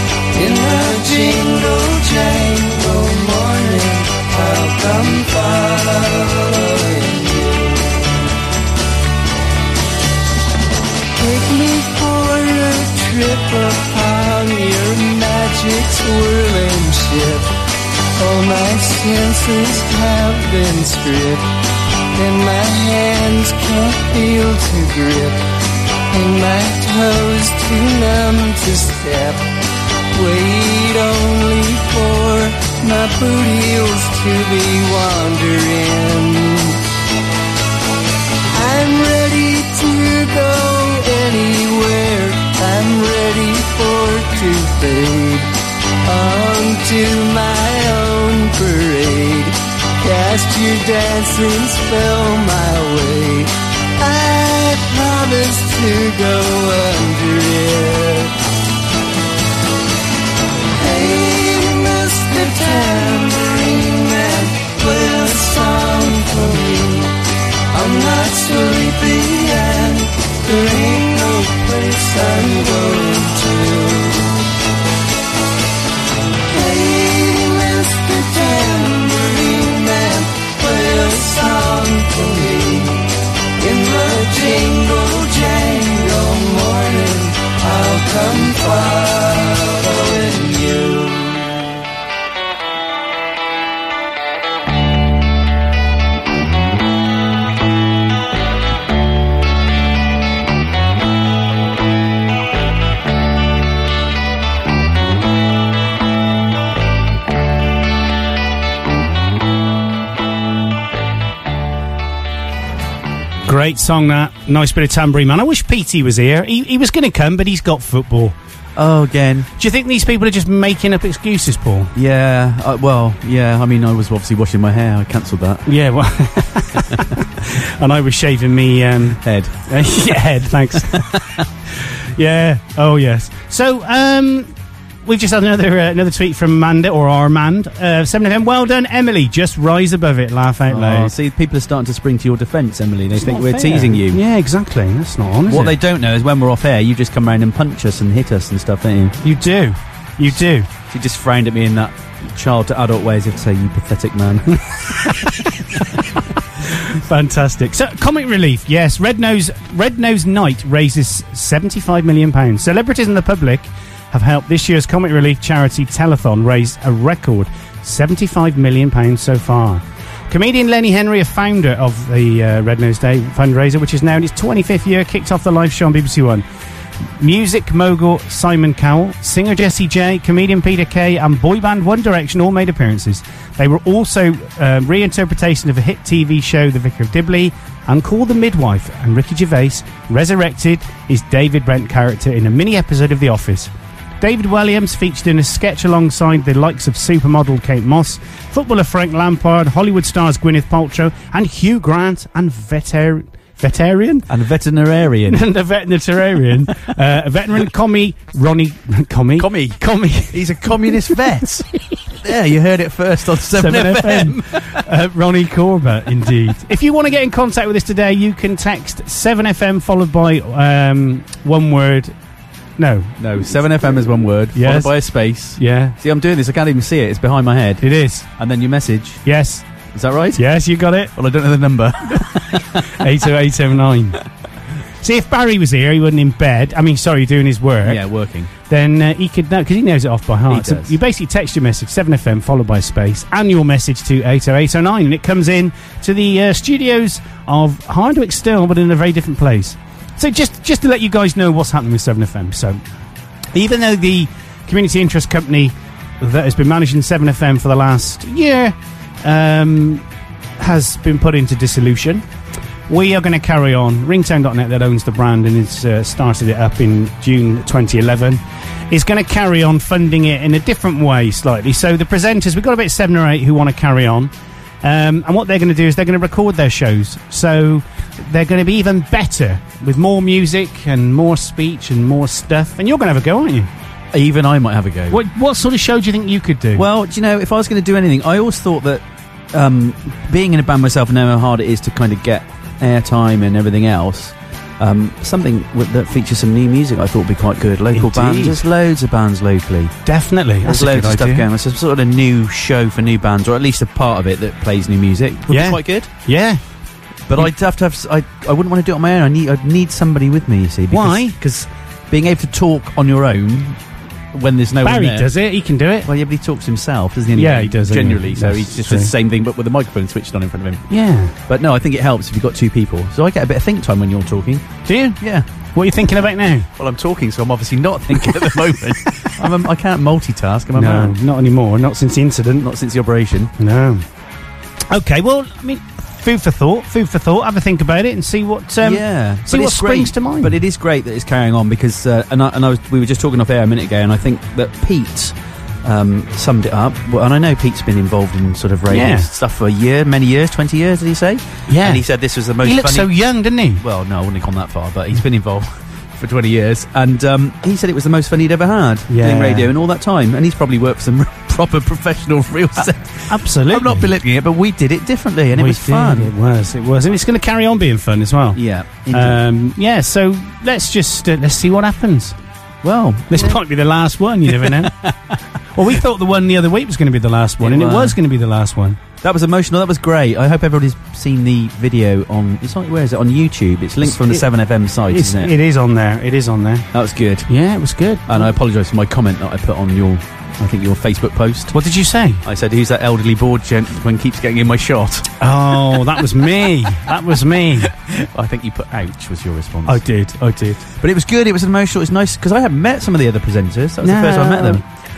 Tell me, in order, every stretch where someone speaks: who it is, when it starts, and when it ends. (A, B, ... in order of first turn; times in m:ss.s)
0:00.3-0:08.3 A
0:11.1-0:17.5 A
0:18.2-0:21.5 A
0:22.1-0:25.4 A
0:26.1-0:29.5 A
0:30.1-0:36.8 A
0:38.5-0:45.5 A
0:46.0-0:58.3 A
1:00.7-1:07.1 A
1:07.7-1:14.4 A
1:16.5-1:23.1 A
1:23.6-1:31.6 A
1:53.4-1:58.4 B
1:58.8-1:59.5 C
1:59.6-2:01.9 B
2:01.9-2:05.6 C
2:05.6-2:11.1 B
2:09.2-2:09.6 C
2:10.8-2:11.4 C
2:11.8-2:14.5 B
2:15.0-2:21.1 B
2:20.7-2:24.2 C
2:23.2-2:25.8 B
2:25.5-2:29.2 C
2:29.2-2:30.7 B
2:30.9-2:34.5 C
2:35.0-2:35.4 B
2:36.7-2:56.4 B
2:57.2-3:24.3 B
3:24.3-3:25.4 C
3:25.3-3:31.2 B
3:29.4-3:34.8 C
3:33.5-3:42.1 B
3:42.8-3:43.2 B
3:43.2-3:47.8 C
3:44.5-3:44.9 B
3:45.6-3:46.0 B
3:47.8-3:48.3 B
3:48.4-3:49.2 C
3:49.2-3:49.6 B
3:49.9-3:50.4 C
3:50.3-3:51.1 B
3:51.1-3:52.8 C
3:52.8-3:54.2 B
3:55.0-3:58.0 B
3:57.8-3:58.5 C
3:58.7-4:12.8 B
4:00.5-4:01.0 C
4:13.5-4:20.0 B
4:20.6-4:22.2 B
4:22.9-4:34.3 B
4:34.8-4:43.7 B
4:44.1-4:45.2 C
4:45.1-4:46.9 B
4:46.7-4:59.9 C
4:57.9-4:58.6 B
5:00.0-5:01.5 B
5:00.6-5:06.1 C
5:05.5-5:06.6 B
5:07.3-5:13.8 C
5:10.9-5:11.4 B
5:14.3-5:15.3 C
5:14.8-5:16.1 B
5:16.0-5:20.8 C
5:17.3-5:19.1 B
5:20.9-5:21.3 B
5:21.5-5:24.7 C
5:24.8-5:25.2 B
5:25.2-5:25.4 C
5:25.7-5:26.7 B
5:26.8-5:31.2 C
5:30.7-5:32.6 B
5:32.6-5:33.5 C
5:33.6-5:34.0 B
5:34.9-5:40.6 B
5:38.8-5:53.1 C
5:48.9-5:49.3 B
5:51.7-5:52.0 B
5:52.6-5:53.8 B
5:53.8-6:06.3 C
5:59.1-5:59.7 B
6:03.3-6:04.1 B
6:05.5-6:08.6 B
6:08.5-6:09.4 C
6:09.1-6:12.4 B
6:12.8-6:13.6 C
6:13.3-6:14.9 B
6:14.5-6:15.3 C
6:15.7-6:19.0 B
6:17.6-6:18.2 C
6:19.2-6:25.5 C
6:24.0-6:24.4 B
6:25.1-6:26.9 B
6:26.9-6:27.5 C
6:27.5-6:28.5 B
6:28.3-6:31.7 C
6:31.7-6:32.4 B
6:32.4-6:35.3 C
6:35.4-6:37.9 B
6:37.8-6:40.0 C
6:39.8-6:40.9 B
6:41.0-6:44.8 C
6:44.0-6:44.8 B